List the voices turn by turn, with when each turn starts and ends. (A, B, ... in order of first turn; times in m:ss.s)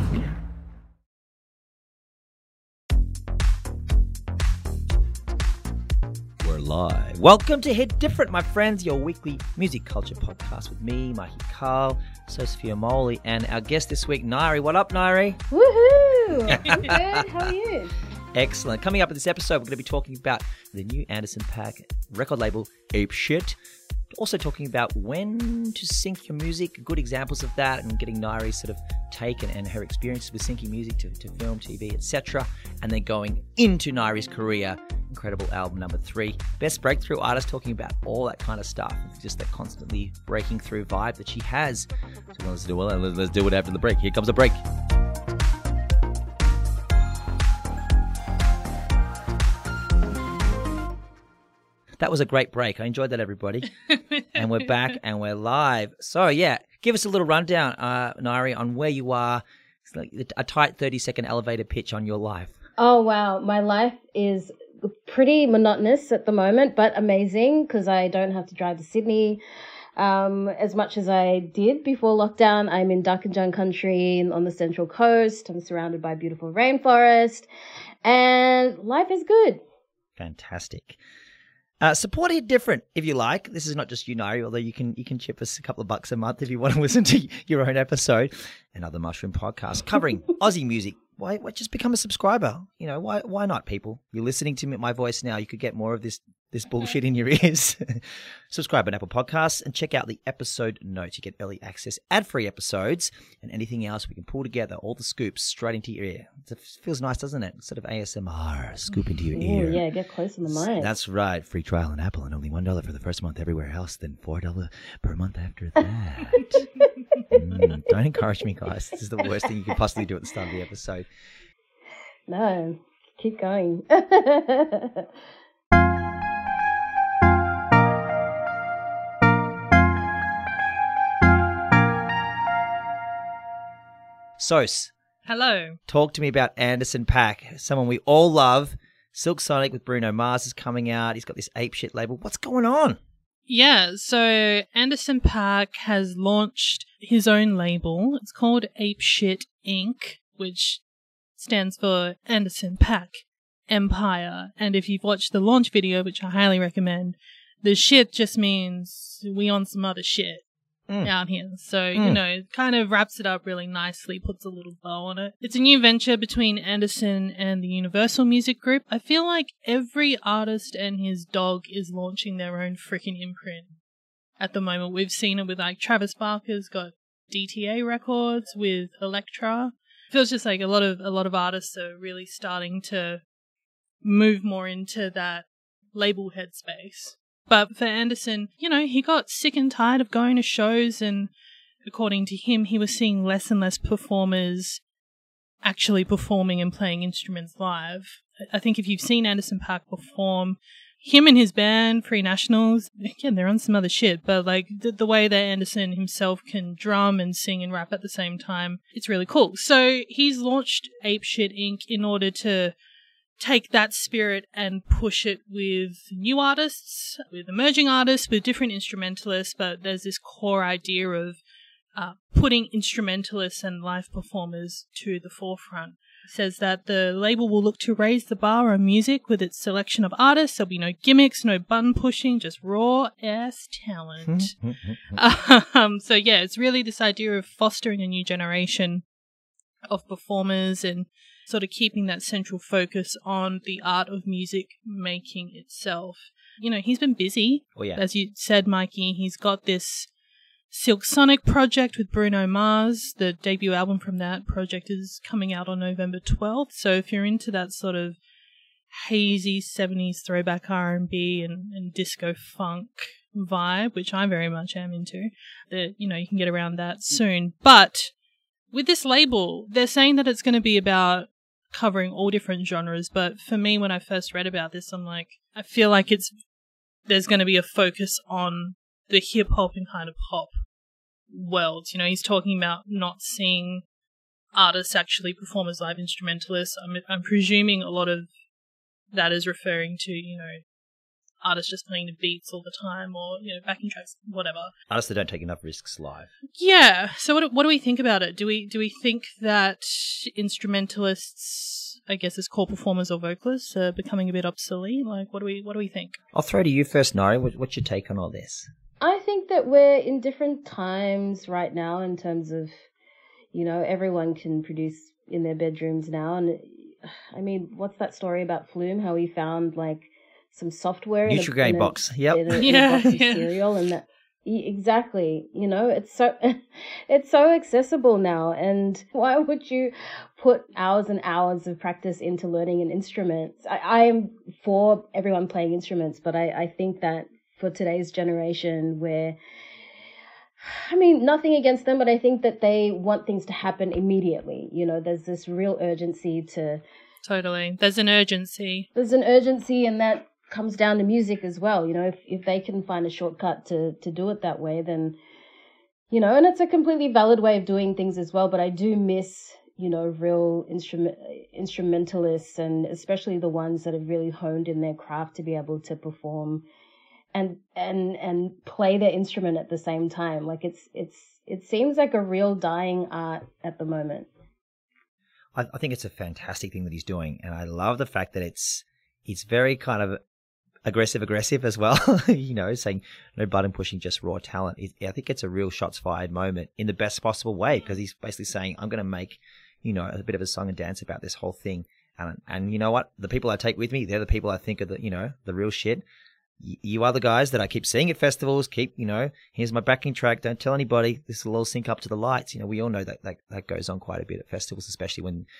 0:06.4-0:15.4 A
0:15.5-0:17.9 B
0:16.4-0:17.4 A
0:18.3-0:23.6 A
0:24.1-0:44.6 A
0:52.0-0:53.7 A
0:53.9-0:54.7 C
0:54.3-1:02.6 A
1:02.8-1:09.4 B
1:10.0-1:17.5 B
1:18.0-1:19.6 B
1:20.2-1:21.0 A
1:21.8-1:49.8 A
1:49.3-1:50.9 B
1:50.5-1:56.6 A
1:57.3-2:01.0 A
2:02.3-2:05.1 B
2:14.4-2:14.9 A
2:15.2-2:15.8 C
2:15.9-2:23.0 A
2:23.5-2:30.8 C
2:31.4-2:40.4 C
2:41.0-2:53.7 C
2:41.9-2:42.2 A
2:54.4-3:03.2 C
3:04.0-3:11.3 C
3:11.8-3:14.8 C
3:15.6-3:32.7 C
3:33.4-3:41.4 C
3:41.9-3:54.5 C
3:54.2-3:55.2 A
3:55.1-3:59.0 C
3:59.9-4:10.1 C
4:07.8-4:08.0 A
4:10.7-4:18.2 C
4:18.9-4:28.1 C
4:28.7-4:36.3 C
4:37.1-4:40.5 C
4:41.3-4:43.8 C
4:44.5-4:48.3 C
4:49.1-4:50.6 C
4:51.4-4:54.7 C
4:54.9-4:56.3 A
4:56.5-5:06.2 C
5:06.3-5:08.7 A
5:09.0-5:12.7 B
5:13.5-5:39.4 B
5:21.2-5:22.7 A
5:22.6-5:23.5 C
5:40.6-5:46.8 B
5:47.2-5:48.9 C
5:48.9-5:55.2 B
5:56.1-6:06.6 B
6:07.3-6:14.3 B
6:15.5-6:20.2 A
6:20.8-6:36.0 A
6:36.6-6:45.5 A